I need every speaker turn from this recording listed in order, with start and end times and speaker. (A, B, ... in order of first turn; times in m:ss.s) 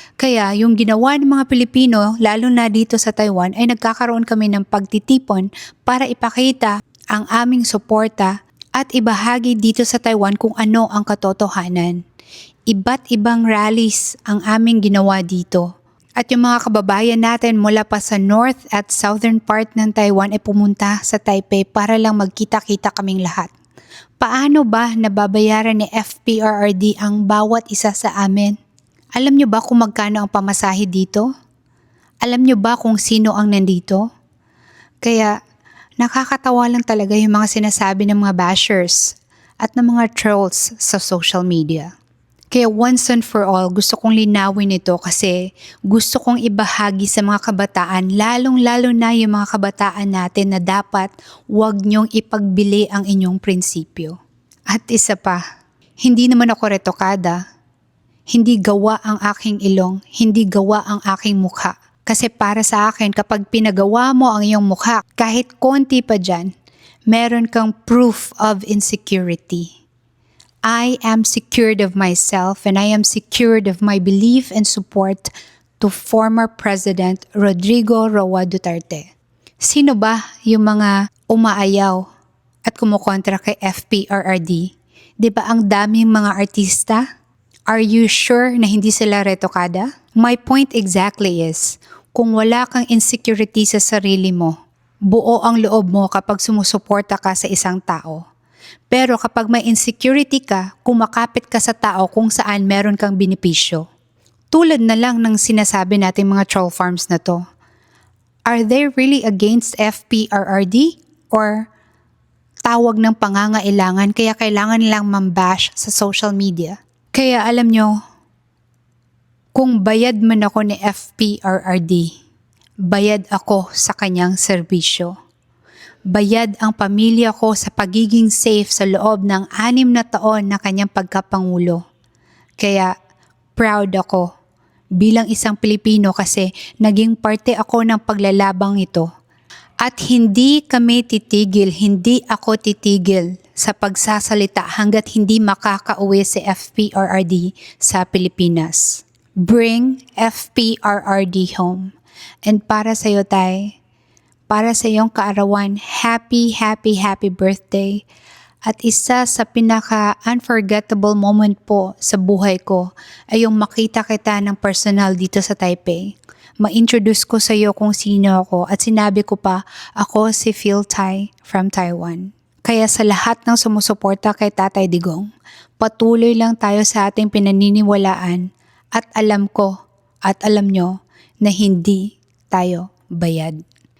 0:00.2-0:12.0 A
0:12.7-0:15.6 A
0:16.2-0:23.5 A
0:24.2-0:28.6 A
0:29.2-0:31.3 A
0:32.2-0:34.0 A
0:35.0-0:35.3 A
0:36.0-0:41.9 A
0:42.5-0:45.4 A
0:45.9-0:54.2 A
0:54.7-0:55.4 A
0:56.0-0:57.4 A
0:58.3-1:06.5 A
1:07.1-1:09.7 A
1:10.6-1:19.1 A
1:19.6-1:22.0 A
1:22.6-1:24.7 A
1:25.2-1:27.0 A
1:27.7-1:34.5 A
1:35.1-1:38.2 A
1:38.9-1:43.8 A
1:44.5-1:47.4 A
1:48.5-1:51.7 A
1:52.6-1:57.9 A
1:59.6-2:02.1 A
2:02.9-2:05.1 A
2:06.1-2:11.8 A
2:12.6-2:12.9 A
2:13.6-2:14.3 A
2:15.0-2:19.1 A
2:19.8-2:31.9 A
2:32.4-2:33.7 A
2:34.5-2:38.0 A
2:38.6-2:55.3 A
2:55.8-2:59.7 A
3:00.2-3:03.6 A